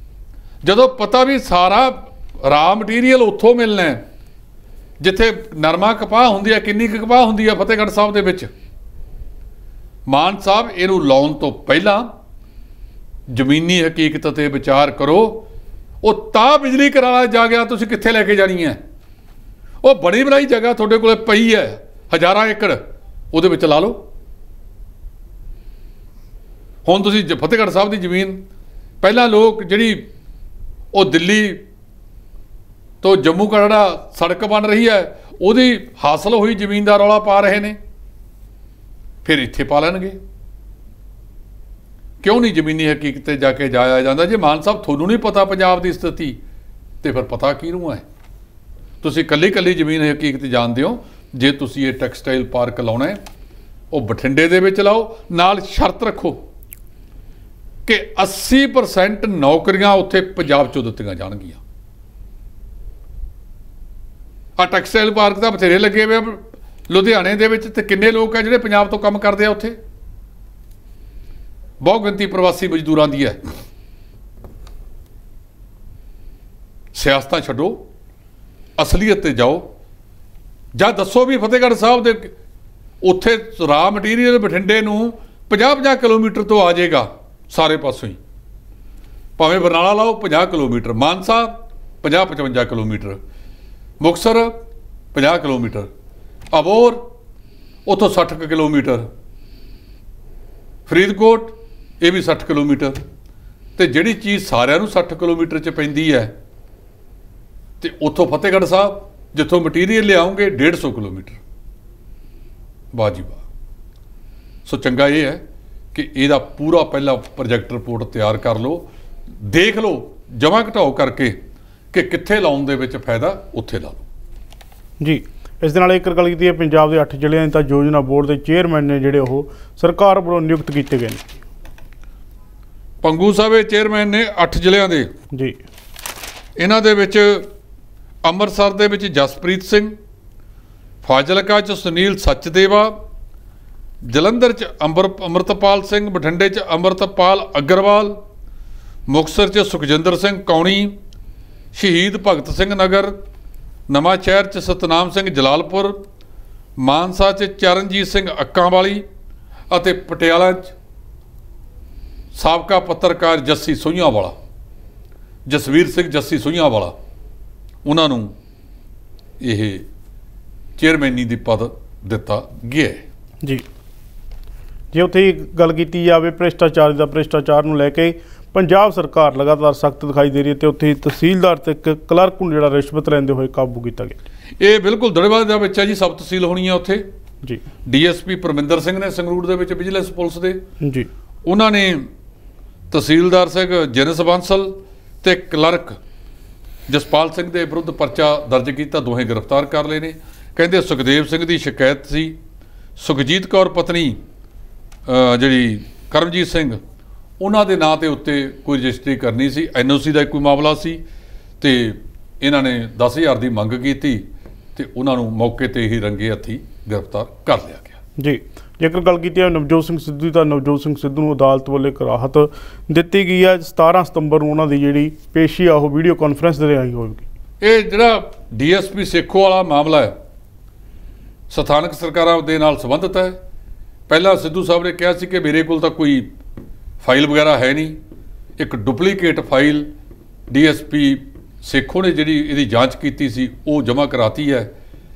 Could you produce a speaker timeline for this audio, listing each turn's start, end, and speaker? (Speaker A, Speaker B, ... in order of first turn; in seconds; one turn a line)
Speaker A: 0.6-4.0
Speaker A: 5.0-8.5
Speaker A: 10.1-12.1
Speaker A: 13.3-15.5
Speaker A: 16.0-18.8
Speaker A: 19.8-24.0
Speaker A: 26.9-28.4
Speaker A: 29.0-30.1
Speaker A: 30.9-31.6
Speaker A: 33.0-37.8
Speaker A: 39.2-40.2
Speaker A: 42.2-46.4
Speaker A: 47.0-48.0
Speaker A: 49.0-53.2
Speaker A: 53.9-56.4
Speaker A: 57.9-61.6
Speaker A: 64.6-69.8
Speaker A: 71.8-73.4
Speaker A: 76.9-77.8
Speaker A: 78.8-79.7
Speaker A: 80.8-82.3
Speaker A: 83.0-88.2
Speaker A: 89.4-93.2
Speaker A: 94.0-94.6
Speaker A: 95.1-95.9
Speaker A: 96.5-97.1
Speaker A: 97.9-99.1
Speaker A: 100.9-103.0
Speaker A: 103.8-106.3
Speaker A: 107.8-111.4
Speaker A: 112.9-113.4
Speaker A: 114.7-118.9
Speaker A: 119.4-121.4
Speaker A: 121.9-124.0
Speaker B: 125.0-131.3
Speaker A: 133.0-135.1
Speaker B: 135.3-135.6
Speaker A: 136.6-137.5
Speaker A: 138.2-139.9
Speaker A: 141.0-143.0
Speaker A: 144.1-148.2
Speaker A: 149.1-151.0
Speaker A: 151.7-153.2
Speaker A: 153.9-156.0
Speaker A: 156.8-159.0
Speaker A: 159.7-160.8
Speaker A: 162.3-164.4
Speaker A: 165.5-167.0
Speaker A: 167.8-168.3
Speaker A: 169.4-169.8
Speaker A: 170.8-173.0
Speaker B: 174.9-184.2
Speaker A: 184.6-187.1
Speaker A: 187.9-190.6
Speaker B: 190.8-191.1
Speaker A: 191.5-192.1
Speaker A: 192.9-196.0
Speaker A: 196.9-202.4
Speaker A: 203.0-204.2
Speaker A: 205.1-206.8
Speaker A: 207.4-211.0
Speaker A: 211.6-218.0
Speaker B: 218.2-227.2
Speaker A: 227.6-230.2
Speaker A: 231.5-233.4
Speaker A: 234.1-236.3
Speaker A: 237.0-238.0
Speaker A: 238.6-239.9
Speaker A: 240.5-244.7